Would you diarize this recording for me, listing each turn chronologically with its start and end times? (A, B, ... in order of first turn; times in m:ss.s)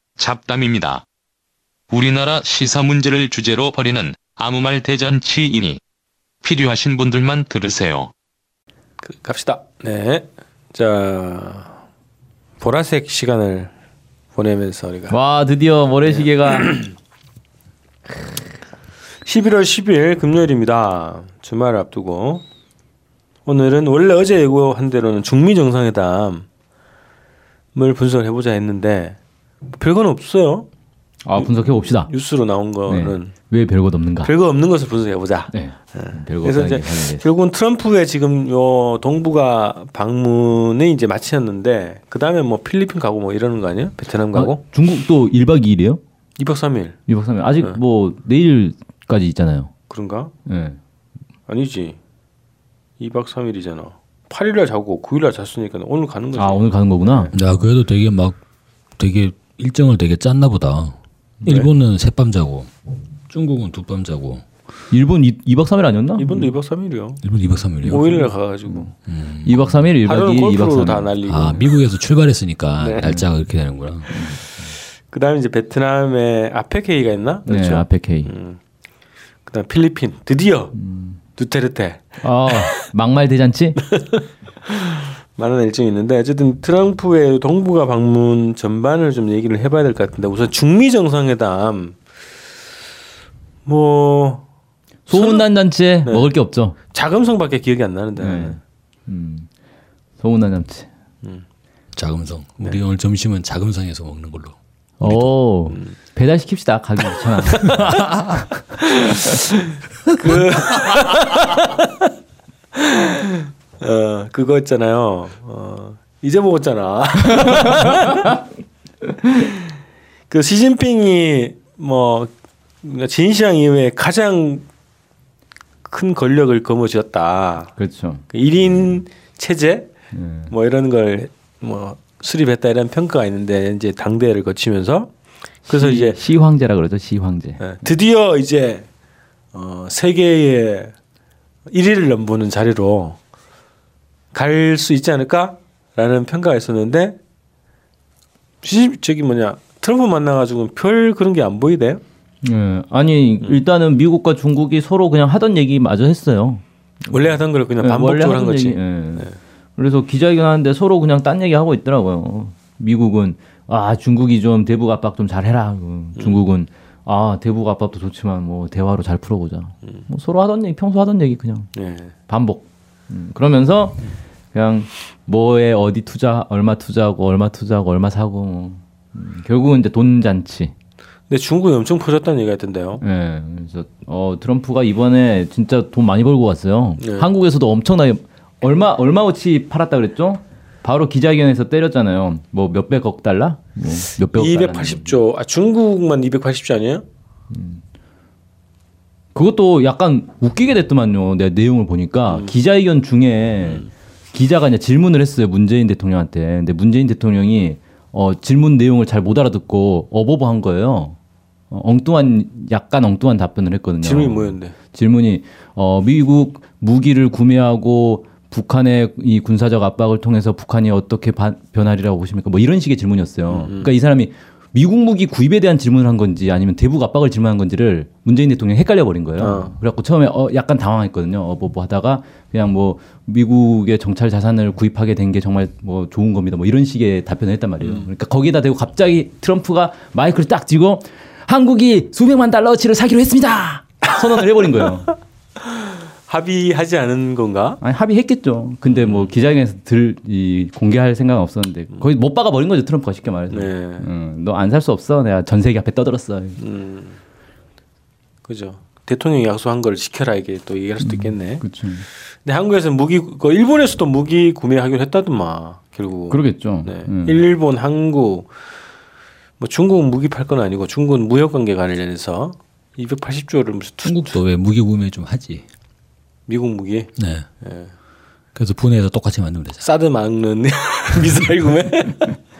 0:00.2-0:01.0 A
0:01.9-0:05.8 A
0:06.4-0:08.1 A
0:09.0-0:11.8 B
0:12.6-0:13.7 B
0:14.3-0:15.2 B
0:15.1-0:16.9 C
0:19.2-0:22.4 B
0:23.4-0:26.5 B
0:27.7-0:29.2 B
0:29.7-0:30.7 B
0:31.2-0:32.1 C
0:31.4-0:33.3 B
0:32.8-0:34.3 C
0:34.2-0:44.6 B
0:35.5-0:37.2 C
0:44.3-0:46.0 C
0:46.4-0:47.0 B
0:47.1-0:49.7 C
0:49.9-0:50.3 B
0:50.4-0:50.8 C
0:51.5-0:52.0 B
0:53.0-0:57.4 B
0:56.4-0:57.3 C
0:57.3-0:58.4 D
0:59.0-1:02.7 D
1:03.3-1:04.4 D
1:04.9-1:06.5 C
1:06.2-1:07.2 B
1:07.2-1:08.1 D
1:07.8-1:08.9 B
1:08.1-1:08.9 C
1:09.1-1:09.8 D
1:09.4-1:11.6 C
1:10.0-1:11.6 B
1:11.2-1:14.1 D
1:12.8-1:13.2 B
1:14.1-1:14.7 C
1:15.1-1:18.6 B
1:17.4-1:18.3 C
1:19.4-1:20.8 B
1:20.8-1:21.2 C
1:21.3-1:22.8 B
1:22.2-1:23.8 C
1:23.8-1:32.0 B
1:33.6-1:34.4 B
1:35.1-1:36.8 C
1:35.1-1:35.5 B
1:36.0-1:36.3 B
1:36.9-1:38.6 B
1:38.2-1:39.5 C
1:40.2-1:40.9 C
1:41.9-1:44.5 D
1:45.0-1:48.1 C
1:47.6-1:48.4 D
1:48.8-1:49.6 B
1:50.2-1:52.0 B
1:52.7-1:58.3 B
2:00.3-2:02.3 B
2:02.8-2:04.6 B
2:05.8-2:07.7 B
2:07.8-2:08.2 C
2:08.3-2:09.9 B
2:10.1-2:10.5 C
2:10.5-2:15.1 B
2:15.6-2:16.2 B
2:15.7-2:17.8 C
2:17.6-2:18.9 B
2:19.5-2:20.9 B
2:21.7-2:23.2 B
2:24.3-2:27.2 B
2:28.6-2:32.0 B
2:32.4-2:51.7 C
2:37.1-2:39.4 B
2:46.2-2:46.4 B
2:51.7-2:52.1 B
2:52.3-3:00.7 C
3:01.3-3:03.0 B
3:03.0-3:15.2 C
3:07.0-3:07.3 B
3:14.3-3:17.0 B
3:17.5-3:17.8 C
3:19.3-3:31.2 C
3:22.3-3:22.6 B
3:23.6-3:23.9 B
3:31.7-4:05.1 C
3:34.0-3:34.8 B
3:43.5-3:43.9 B
3:49.4-3:49.8 B
3:57.8-3:58.1 B
4:05.6-4:07.8 B
4:07.8-4:16.6 C
4:08.8-4:09.3 B
4:13.5-4:14.1 B
4:16.6-4:17.2 B
4:18.4-4:21.6 B
4:21.0-4:22.1 C
4:22.2-4:28.5 B
4:26.3-4:27.4 C
4:29.6-4:34.4 B
4:34.0-4:35.6 D
4:36.5-4:37.9 B
4:37.2-4:37.5 D
4:38.5-4:39.9 D
4:39.8-4:42.4 B